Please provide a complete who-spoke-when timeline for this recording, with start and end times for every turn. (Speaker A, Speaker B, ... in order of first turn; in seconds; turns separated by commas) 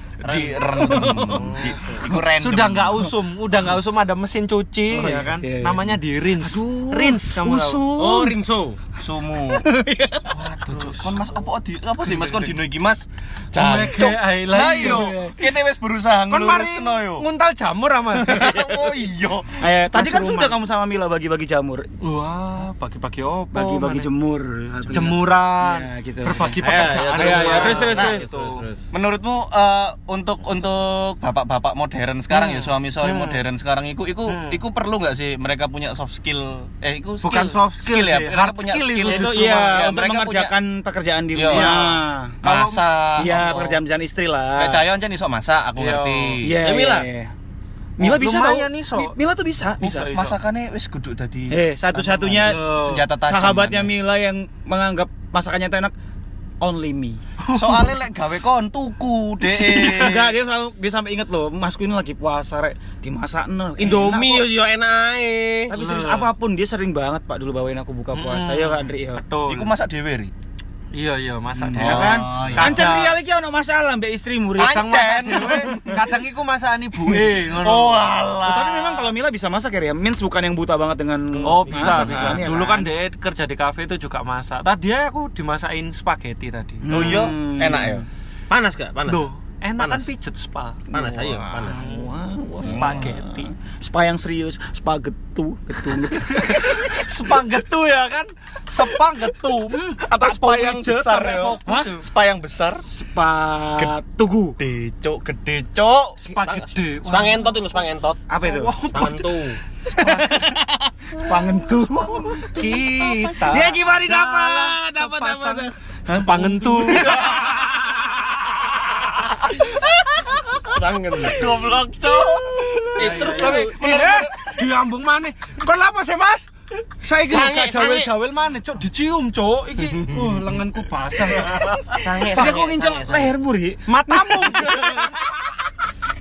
Speaker A: 0.2-3.0, Speaker B: 0.3-7.9, Speaker C: 0.7-1.6, Speaker C: 4.9-8.4, Speaker D: 8.0-8.8, Speaker A: 9.0-9.7, Speaker C: 9.5-10.3, Speaker B: 10.3-11.2, Speaker A: 10.4-17.3, Speaker B: 12.1-12.6, Speaker B: 13.5-15.1, Speaker C: 14.7-15.3, Speaker B: 16.3-18.7, Speaker A: 18.1-19.7, Speaker C: 19.6-21.9, Speaker B: 19.9-20.6, Speaker B: 22.0-24.1, Speaker C: 23.5-26.6, Speaker B: 24.9-28.6, Speaker D: 26.6-28.9, Speaker C: 27.2-28.3, Speaker A: 28.9-40.5, Speaker B: 32.3-33.5, Speaker B: 34.3-34.6, Speaker B: 37.2-39.8, Speaker C: 39.0-44.8, Speaker A: 41.3-41.8, Speaker B: 41.5-43.7, Speaker A: 42.4-43.6, Speaker A: 44.6-46.6, Speaker B: 45.8-46.4, Speaker C: 46.4-47.3, Speaker D: 46.6-47.1, Speaker C: 48.0-50.2, Speaker B: 48.0-49.1, Speaker A: 49.8-51.6, Speaker C: 51.5-52.6, Speaker B: 52.0-53.0, Speaker A: 52.2-53.9, Speaker C: 53.2-55.9, Speaker C: 56.6-57.2, Speaker B: 57.4-58.0, Speaker A: 57.5-60.3, Speaker C: 59.5-64.5, Speaker D: 63.8-65.7, Speaker C: 65.7-69.2, Speaker B: 65.7-66.3, Speaker B: 68.1-69.7, Speaker A: 69.5-70.3, Speaker B: 70.9-73.2, Speaker C: 71.6-74.8, Speaker A: 71.8-73.0, Speaker A: 74.6-76.2, Speaker B: 74.6-78.2, Speaker A: 77.0-79.1, Speaker C: 78.4-82.9, Speaker D: 81.3-82.5, Speaker B: 81.4-87.1, Speaker C: 86.8-88.0, Speaker A: 86.9-88.0, Speaker D: 88.5-89.3, Speaker B: 89.1-90.9, Speaker D: 89.8-90.1, Speaker D: 90.9-91.9, Speaker C: 90.9-96.9, Speaker A: 91.2-91.7, Speaker B: 91.7-93.5, Speaker A: 92.6-93.2, Speaker B: 96.2-101.6, Speaker A: 100.0-102.9, Speaker C: 101.7-101.9, Speaker C: 102.8-104.6, Speaker A: 104.6-106.2, Speaker B: 106.2-107.8, Speaker D: 106.3-108.2, Speaker C: 108.3-108.7, Speaker B: 108.4-110.4, Speaker D: 108.9-109.6, Speaker C: 110.0-110.5, Speaker C: 111.2-112.6, Speaker B: 112.5-117.1, Speaker C: 113.4-117.3, Speaker A: 116.9-118.7, Speaker A: 120.2-120.5, Speaker D: 120.6-121.5, Speaker A: 121.3-124.7, Speaker D: 123.0-123.8, Speaker B: 123.0-126.5, Speaker C: 123.8-124.3, Speaker B: 127.0-132.0, Speaker D: 127.2-128.1, Speaker D: 132.0-133.4, Speaker C: 132.0-135.2, Speaker B: 133.9-135.1